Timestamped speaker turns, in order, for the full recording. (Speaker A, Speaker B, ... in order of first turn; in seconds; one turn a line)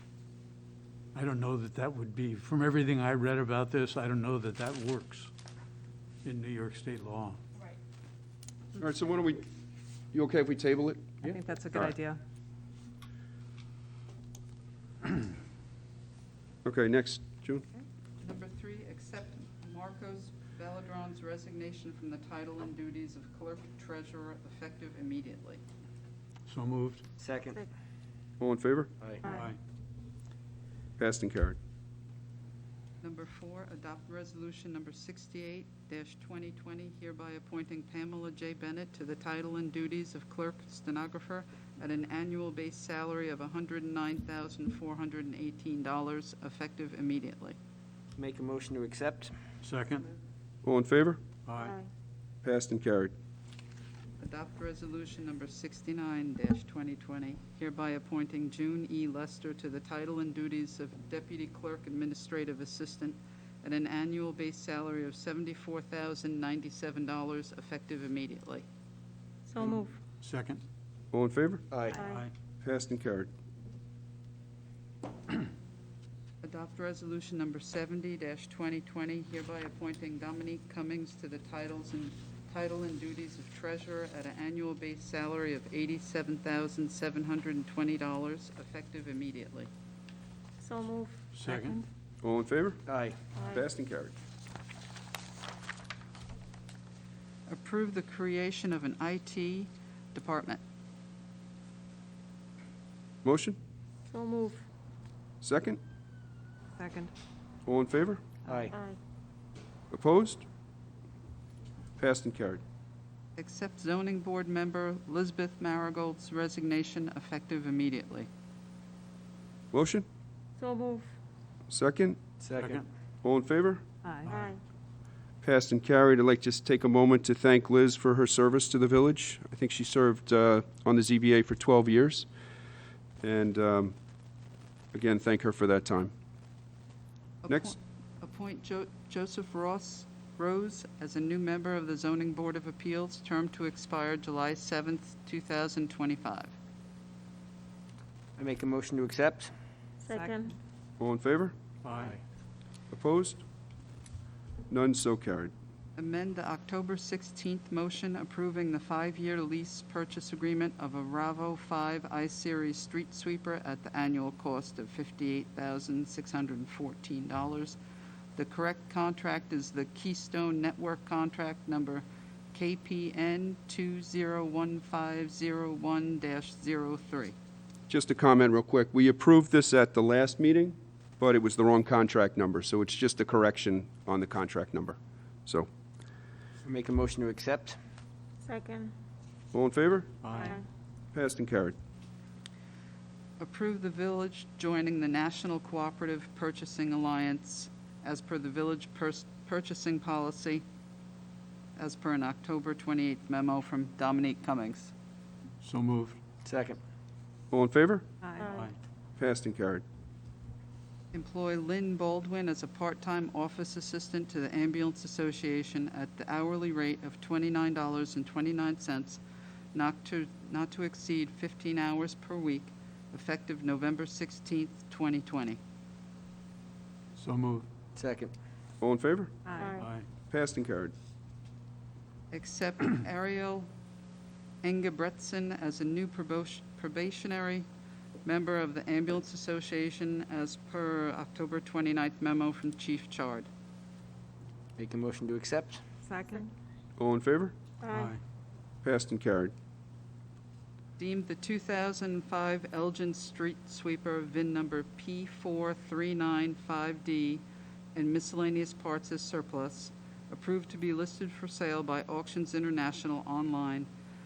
Speaker A: 1.1-5.3
Speaker A: 6.2-7.4
Speaker B: 8.7-9.4
Speaker B: 10.1-11.1
Speaker C: 11.3-12.2
Speaker B: 11.7-12.0
Speaker B: 16.6-17.7
Speaker D: 18.2-25.6
Speaker A: 26.4-27.0
Speaker E: 27.2-27.6
Speaker B: 28.4-28.9
Speaker E: 29.0-29.2
Speaker C: 29.2-29.5
Speaker A: 29.2-29.6
Speaker B: 31.0-31.6
Speaker D: 33.0-47.6
Speaker E: 48.2-49.3
Speaker A: 49.6-50.1
Speaker B: 50.6-51.2
Speaker A: 51.5-51.8
Speaker C: 51.5-51.9
Speaker B: 52.4-53.1
Speaker D: 54.2-68.7
Speaker C: 69.5-70.0
Speaker A: 70.2-70.6
Speaker B: 71.1-71.7
Speaker E: 71.7-72.0
Speaker C: 71.9-72.3
Speaker A: 72.0-72.3
Speaker B: 72.6-73.3
Speaker D: 76.4-89.7
Speaker C: 90.6-91.8
Speaker A: 91.3-91.8
Speaker B: 92.2-92.8
Speaker E: 92.9-93.2
Speaker C: 93.3-93.6
Speaker B: 93.4-94.1
Speaker D: 97.5-100.6
Speaker B: 103.2-103.6
Speaker C: 104.1-104.7
Speaker B: 105.4-105.8
Speaker C: 106.8-107.1
Speaker B: 107.7-108.2
Speaker E: 108.5-108.8
Speaker C: 108.6-109.0
Speaker B: 109.9-110.4
Speaker B: 112.0-112.6
Speaker D: 113.4-118.3
Speaker B: 119.7-120.0
Speaker C: 120.6-121.1
Speaker B: 121.7-122.2
Speaker E: 122.4-122.8
Speaker A: 122.6-122.8
Speaker B: 123.2-123.8
Speaker C: 124.0-124.6
Speaker A: 124.2-124.5
Speaker B: 125.4-132.3
Speaker B: 133.2-133.9
Speaker B: 134.9-136.1
Speaker D: 137.4-146.5
Speaker B: 137.5-137.7
Speaker E: 148.4-149.5
Speaker C: 150.0-150.6
Speaker B: 151.0-151.5
Speaker A: 151.8-152.2
Speaker B: 152.9-153.4
Speaker B: 154.7-155.5
Speaker D: 155.9-167.8
Speaker D: 168.3-177.3
Speaker B: 177.9-185.7
Speaker E: 186.6-187.8
Speaker C: 188.4-188.9
Speaker B: 189.5-190.1
Speaker A: 190.2-190.6
Speaker C: 190.3-190.7
Speaker B: 191.1-191.8
Speaker D: 193.4-200.6
Speaker D: 201.8-204.9
Speaker A: 205.6-206.2
Speaker E: 206.4-206.8
Speaker B: 207.5-208.1
Speaker C: 208.2-208.7
Speaker A: 208.4-208.8
Speaker B: 209.2-209.8
Speaker D: 211.1-219.2
Speaker D: 219.7-225.6
Speaker A: 227.2-227.7
Speaker E: 228.0-228.3
Speaker B: 228.8-229.7
Speaker C: 229.5-229.9
Speaker A: 229.7-230.1
Speaker B: 230.3-230.9
Speaker D: 232.3-233.7
Speaker D: 234.6-237.7
Speaker D: 238.2-243.5
Speaker E: 244.8-245.8
Speaker C: 246.1-246.5
Speaker B: 247.0-247.5
Speaker C: 247.8-248.2
Speaker A: 247.9-248.2
Speaker B: 248.8-249.5
Speaker D: 251.0-257.4
Speaker D: 257.9-263.9